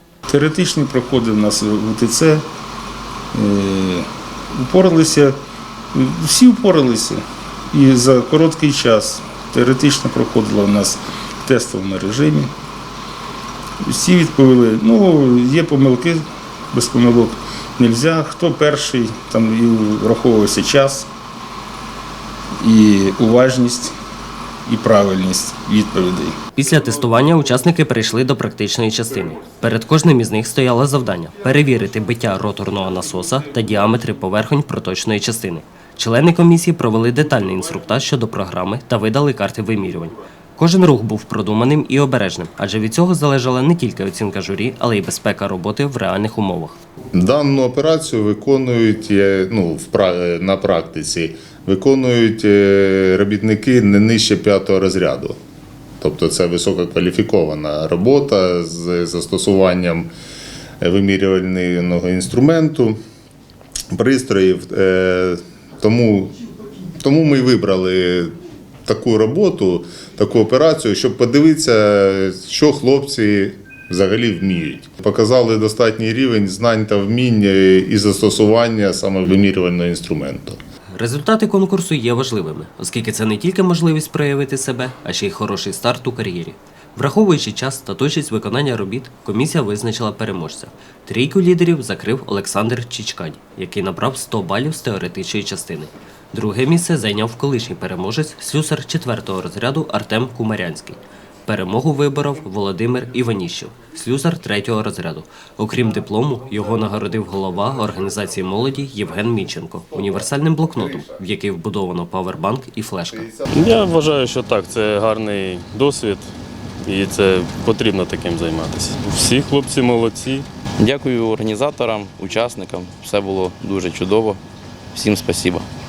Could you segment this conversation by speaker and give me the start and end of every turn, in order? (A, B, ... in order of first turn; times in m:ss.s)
0:00.3-0:02.4 A
0:03.3-0:05.4 A
0:05.9-0:12.5 A
0:13.8-0:21.1 A
0:22.6-0:23.9 A
0:24.6-0:26.4 A
0:26.6-0:46.8 B
0:47.1-0:55.4 C
0:56.0-1:00.1 C
1:00.8-1:03.0 C
1:03.9-1:06.3 C
1:07.0-1:08.3 C
1:08.8-1:20.6 C
1:21.0-1:53.3 B
1:53.5-1:56.3 D
1:56.8-2:00.4 D
2:00.8-2:04.4 E
2:04.9-2:05.6 E